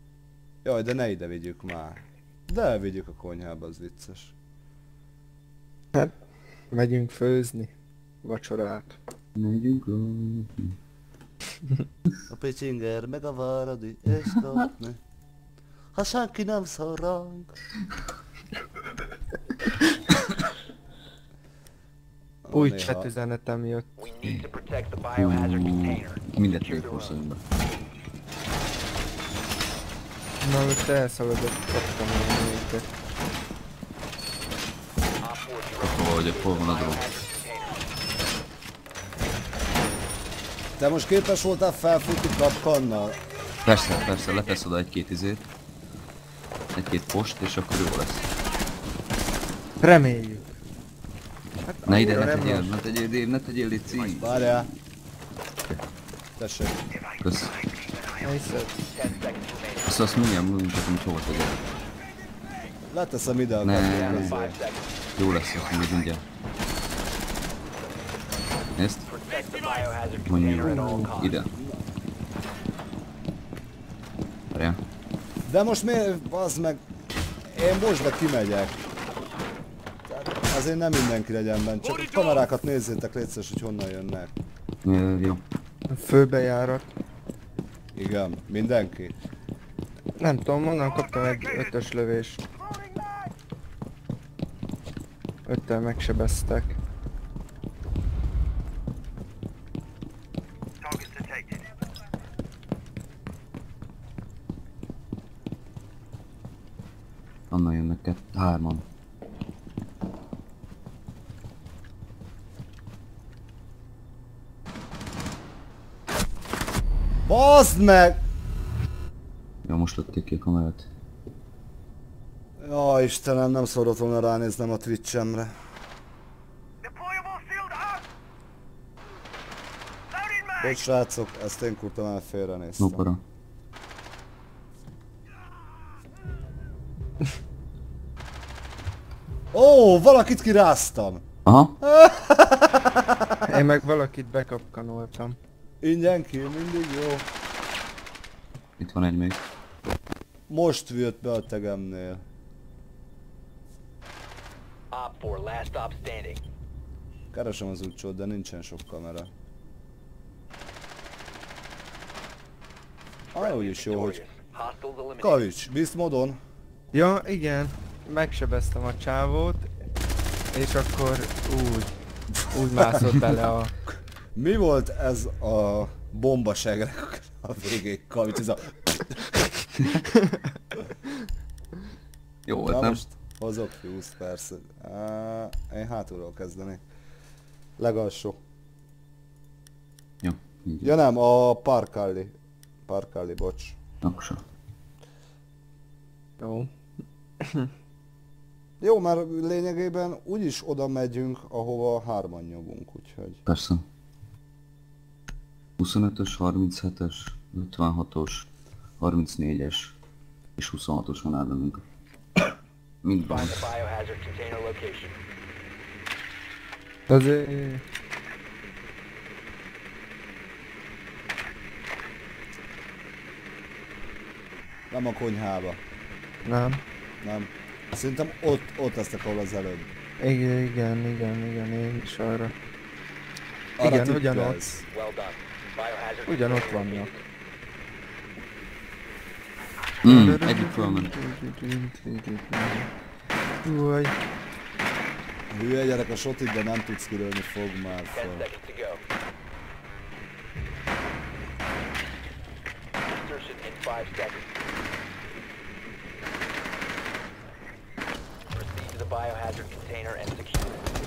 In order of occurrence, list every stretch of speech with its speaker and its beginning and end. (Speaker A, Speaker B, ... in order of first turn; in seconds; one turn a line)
Speaker A: 0.6-4.3
Speaker B: 6.7-7.7
Speaker B: 8.2-9.0
Speaker C: 9.3-10.8
Speaker A: 12.3-15.0
Speaker A: 15.9-17.5
Speaker A: 22.4-23.1
Speaker B: 22.5-23.9
Speaker D: 24.0-27.2
Speaker C: 25.2-27.4
Speaker B: 30.4-32.9
Speaker D: 35.2-37.8
Speaker C: 35.8-37.0
Speaker A: 40.8-43.2
Speaker C: 43.6-45.5
Speaker C: 46.7-48.3
Speaker B: 49.8-50.4
Speaker B: 51.6-52.7
Speaker C: 51.9-54.3
Speaker A: 54.1-54.7
Speaker A: 56.4-56.8
Speaker E: 56.9-58.7
Speaker C: 57.2-57.5
Speaker B: 58.2-58.8
Speaker D: 58.9-60.1
Speaker C: 59.9-61.6
Speaker A: 62.9-64.6
Speaker C: 63.6-64.3
Speaker D: 63.7-65.8
Speaker C: 65.2-66.2
Speaker E: 65.3-65.8
Speaker C: 68.8-69.0
Speaker D: 69.1-71.4
Speaker C: 70.3-71.5
Speaker B: 70.7-71.1
Speaker C: 74.5-74.8
Speaker A: 75.5-76.8
Speaker A: 77.5-78.8
Speaker A: 80.1-84.3
Speaker C: 84.8-85.4
Speaker B: 85.9-86.8
Speaker A: 88.0-89.2
Speaker B: 90.2-92.4
Speaker E: 90.8-91.7
Speaker E: 92.6-93.3
Speaker B: 95.5-96.8
Speaker E: 100.8-101.7
Speaker C: 107.5-108.8
Speaker A: 117.3-118.2
Speaker C: 119.7-120.9
Speaker A: 122.6-125.5
Speaker E: 126.8-128.1
Speaker E: 130.1-130.8
Speaker A: 130.6-133.0
Speaker C: 132.8-133.2
Speaker A: 139.5-143.4
Speaker C: 141.4-141.8
Speaker B: 143.5-145.4
Speaker A: 145.8-147.3
Speaker C: 148.8-149.4
Speaker A: 150.5-152.2
Speaker D: 154.9-156.4
Speaker A: 157.3-159.3
Speaker A: 163.3-164.2
Speaker D: 163.4-165.5
Speaker A: 165.2-166.4
Speaker B: 166.9-169.7
Speaker B: 170.5-171.9
Speaker B: 172.5-173.7
Speaker A: 174.3-179.4
Speaker B: 180.2-180.4
Speaker C: 182.5-183.0
Speaker A: 182.7-186.8
Speaker A: 187.8-188.4
Speaker C: 190.2-190.9
Speaker A: 190.8-192.3
Speaker A: 192.9-193.8
Speaker C: 194.0-194.4
Speaker B: 196.4-196.7
Speaker B: 197.4-197.7
Speaker A: 198.8-203.4
Speaker C: 203.5-203.8
Speaker C: 205.8-208.5
Speaker C: 209.0-209.9
Speaker C: 210.6-211.8
Speaker C: 213.0-213.7
Speaker D: 213.2-215.2
Speaker B: 217.1-217.8
Speaker A: 224.9-225.8
Speaker B: 226.4-226.8
Speaker A: 227.2-229.9
Speaker B: 230.2-232.5
Speaker A: 233.8-234.9
Speaker B: 233.8-234.6
Speaker D: 234.9-237.2
Speaker B: 236.3-237.1
Speaker C: 240.0-241.1
Speaker B: 240.0-242.9
Speaker B: 243.6-244.2
Speaker A: 245.5-248.4
Speaker D: 248.1-249.0
Speaker D: 253.1-254.4
Speaker D: 258.5-260.9